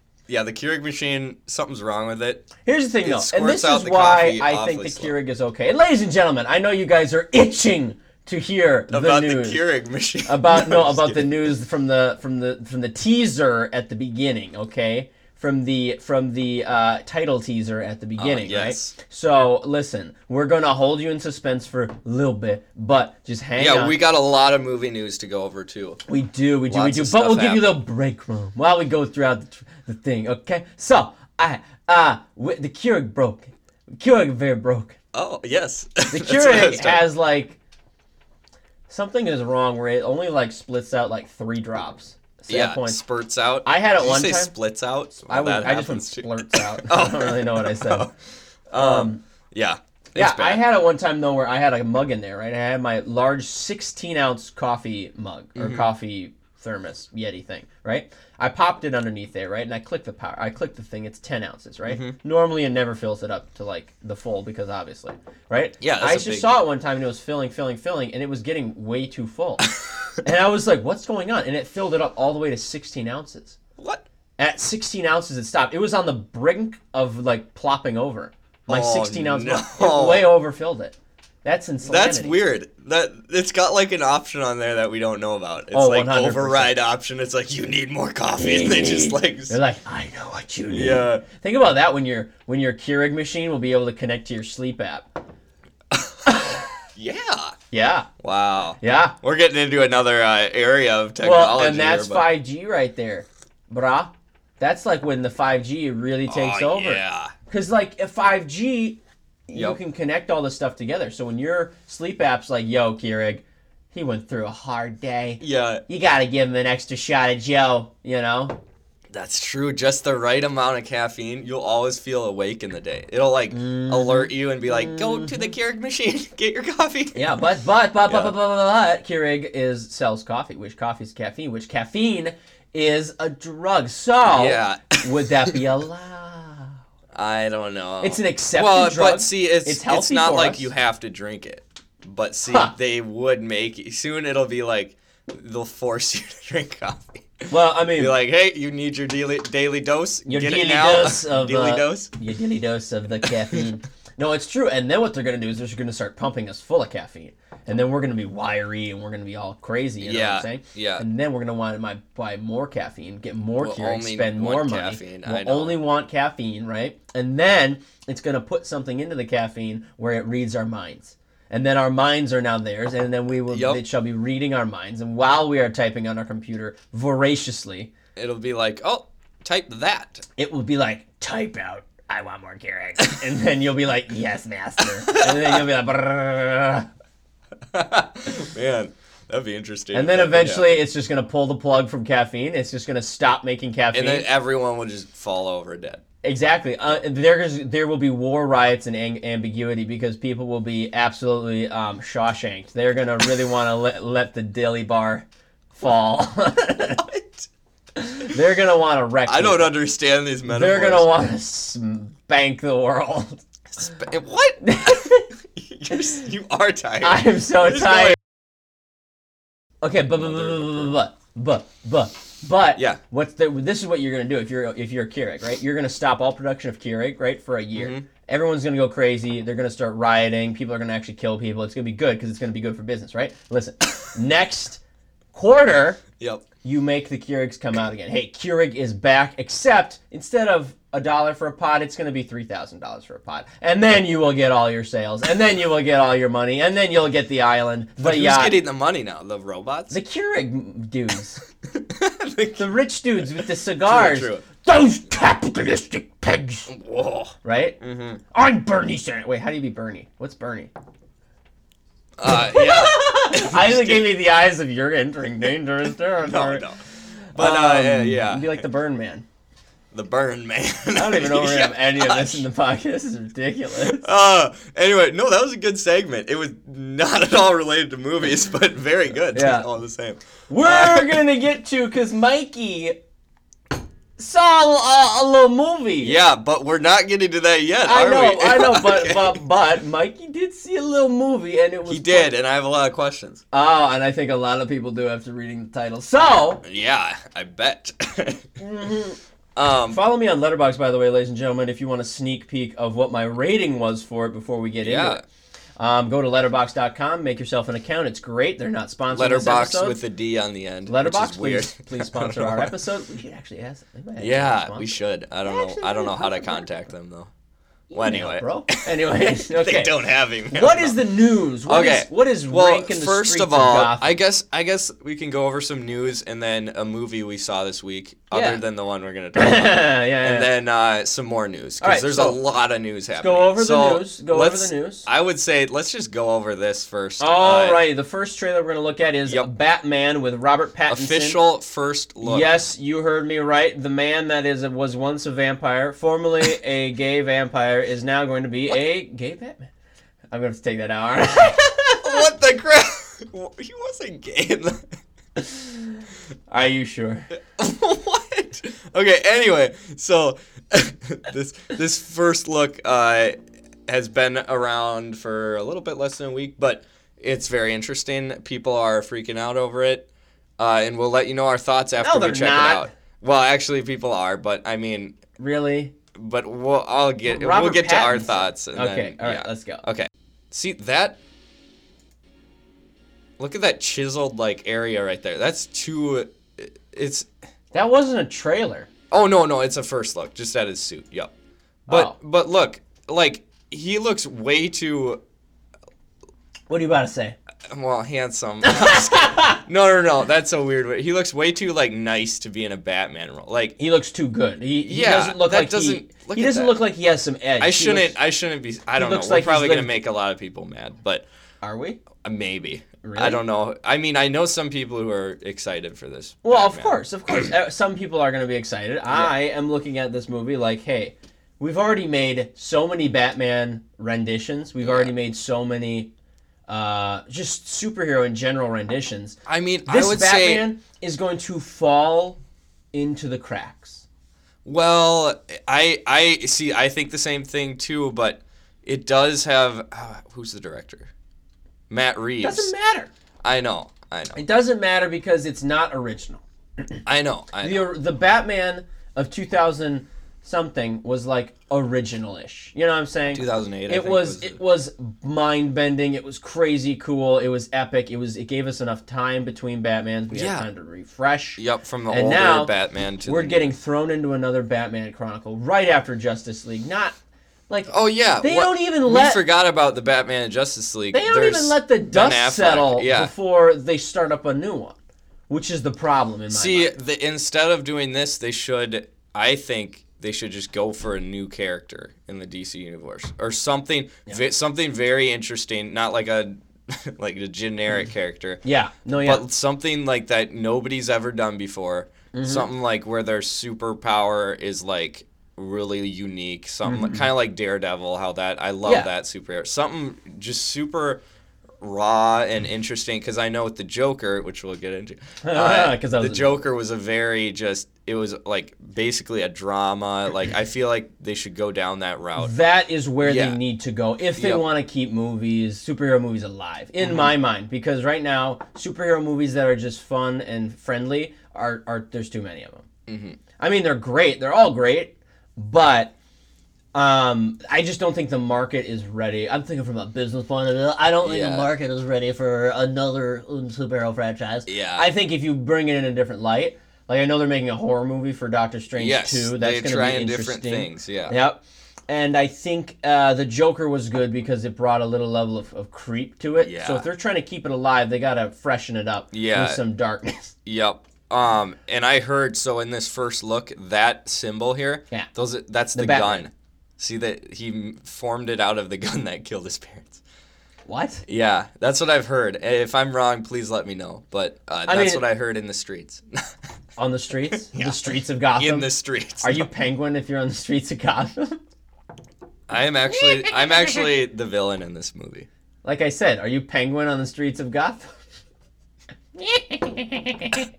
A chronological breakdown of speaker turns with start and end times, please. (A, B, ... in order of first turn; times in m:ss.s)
0:00.3-0:02.5 A
0:02.6-0:09.6 B
0:03.0-0:05.1 A
0:08.9-0:11.3 A
0:10.3-0:24.0 B
0:18.2-0:18.9 A
0:23.6-0:26.0 A
0:26.1-0:35.0 B
0:26.7-0:27.8 A
0:35.1-0:37.0 A
0:36.1-0:37.6 B
0:38.9-0:43.0 B
0:42.5-0:48.1 A
0:43.6-0:44.5 B
0:45.3-0:48.0 B
0:48.7-0:50.6 A
0:48.7-0:49.2 B
0:50.2-1:09.7 B
0:55.6-0:55.9 A
1:01.9-1:02.2 A
1:05.8-1:06.6 A
1:10.2-1:13.6 B
1:13.8-1:14.0 A
1:14.4-1:22.4 B
1:18.7-1:20.3 A
1:21.8-1:29.6 A
1:25.7-1:26.7 B
1:28.4-1:35.1 B
1:30.7-1:31.2 A
1:36.3-1:36.7 B
1:37.0-1:37.6 A
1:37.7-1:38.1 B
1:38.2-1:42.3 A
1:38.8-1:39.2 B
1:41.2-1:58.6 B
1:46.3-1:47.3 A
1:49.5-1:49.8 A
1:55.4-1:55.8 A
1:59.1-2:07.4 A
2:03.5-2:05.5 B
2:07.2-2:16.8 B
2:08.1-2:08.3 A
2:14.3-2:15.6 A
2:17.1-2:32.1 A
2:18.0-2:20.7 B
2:22.5-2:22.7 B
2:27.5-2:28.2 B
2:30.3-2:57.9 B
2:33.2-2:33.7 A
2:40.0-2:41.1 A
2:43.6-2:45.8 A
2:53.5-2:53.8 A
2:58.2-3:00.2 A
3:00.4-3:06.9 B
3:05.0-3:05.6 A
3:07.7-3:10.8 A
3:09.9-3:14.3 B
3:13.9-3:16.0 A
3:16.2-3:27.1 B
3:27.0-3:27.4 A
3:28.0-3:29.7 B
3:29.3-3:31.1 A
3:30.5-3:33.4 B
3:33.7-3:38.2 A
3:34.6-3:35.3 B
3:37.0-3:38.2 B
3:39.8-3:54.8 B
3:40.1-3:40.9 A
3:47.8-3:48.1 A
3:55.3-3:56.0 B
3:56.2-3:56.5 A
3:56.6-4:08.6 B
4:08.0-4:10.0 A
4:09.9-4:11.4 B
4:11.7-4:12.7 A
4:12.6-4:16.7 B
4:13.8-4:14.4 A
4:16.7-4:18.2 A
4:17.4-4:17.8 B
4:18.3-4:20.7 B
4:22.2-4:24.1 A
4:22.3-4:26.6 B
4:26.2-4:26.8 A
4:27.4-4:28.6 A
4:27.4-4:29.2 B
4:29.9-4:32.5 A
4:30.9-4:34.1 B
4:33.8-4:41.2 A
4:39.3-4:39.7 B
4:40.5-4:43.0 B
4:44.2-4:46.2 B
4:46.0-4:49.4 A
4:47.8-4:52.3 B
4:51.9-4:53.4 A
4:53.5-4:56.6 B
4:56.6-4:58.5 A
4:58.6-4:59.2 B
4:59.6-5:00.0 A
4:59.9-5:05.2 B
5:04.8-5:05.2 A
5:05.8-5:10.0 B
5:09.1-5:12.7 A
5:10.9-5:14.9 B
5:14.2-5:17.3 A
5:15.4-5:16.7 B
5:17.9-5:19.9 B
5:17.9-5:18.8 A
5:19.5-5:21.0 A
5:20.5-5:24.1 B
5:21.7-5:37.8 A
5:28.3-5:28.6 B
5:29.4-5:30.5 B
5:31.8-5:32.4 B
5:33.2-5:35.1 B
5:37.2-5:41.4 B
5:40.9-5:42.5 A
5:42.2-5:49.7 B
5:50.3-5:52.3 B
5:52.0-5:54.9 A
5:55.4-5:55.8 B
5:56.5-5:57.3 B
5:57.6-6:03.4 A
6:03.9-6:15.2 A
6:12.0-6:12.9 B
6:15.4-6:15.9 B
6:16.2-6:21.2 A
6:17.3-6:19.8 B
6:23.4-6:27.3 A
6:27.7-6:28.9 B
6:29.1-6:31.3 A
6:31.9-6:32.1 B
6:31.9-6:35.2 A
6:36.7-6:37.4 B
6:37.7-6:43.8 A
6:38.6-6:39.6 B
6:43.8-6:48.2 B
6:44.9-6:46.8 A
6:47.6-6:51.3 A
6:49.0-6:49.9 B
6:51.6-6:52.0 B
6:52.2-6:57.0 A
6:53.0-6:53.4 B
6:56.4-7:06.1 B
7:04.8-7:05.1 A
7:06.7-7:12.4 B
7:09.5-7:10.6 A
7:12.9-7:14.0 B
7:14.6-7:21.1 A
7:21.9-7:22.7 A
7:22.4-7:23.1 B
7:23.4-7:24.4 A
7:24.4-7:26.4 B
7:27.1-7:27.9 A
7:27.6-7:42.7 B
7:33.3-7:34.6 A
7:40.3-7:40.7 A
7:41.6-7:43.7 A
7:43.2-7:47.2 B
7:47.7-7:49.4 B
7:47.9-7:53.3 A
7:51.1-7:55.0 B
7:55.5-7:56.9 B
7:56.5-8:08.6 A
8:08.6-8:09.4 B
8:09.2-8:21.2 A
8:12.3-8:12.7 B
8:16.9-8:17.2 B
8:21.8-8:32.5 A
8:25.4-8:26.6 B
8:32.4-8:42.9 B
8:33.2-8:33.6 A
8:34.4-8:34.6 A
8:37.0-8:37.3 A
8:43.1-8:43.4 A
8:43.6-8:46.1 B
8:46.9-9:10.5 B
8:51.2-8:51.7 A
8:54.7-8:55.1 A
8:59.0-9:01.4 A
9:06.6-9:07.1 A
9:09.3-9:09.8 A
9:10.6-9:20.2 A
9:15.9-9:16.5 B
9:20.9-9:21.2 B
9:21.3-9:26.5 A
9:24.9-9:25.2 B
9:27.0-9:28.9 B
9:27.6-9:29.7 A
9:29.4-9:31.6 B
9:32.7-9:35.5 A
9:35.8-9:38.1 B
9:39.4-9:40.7 B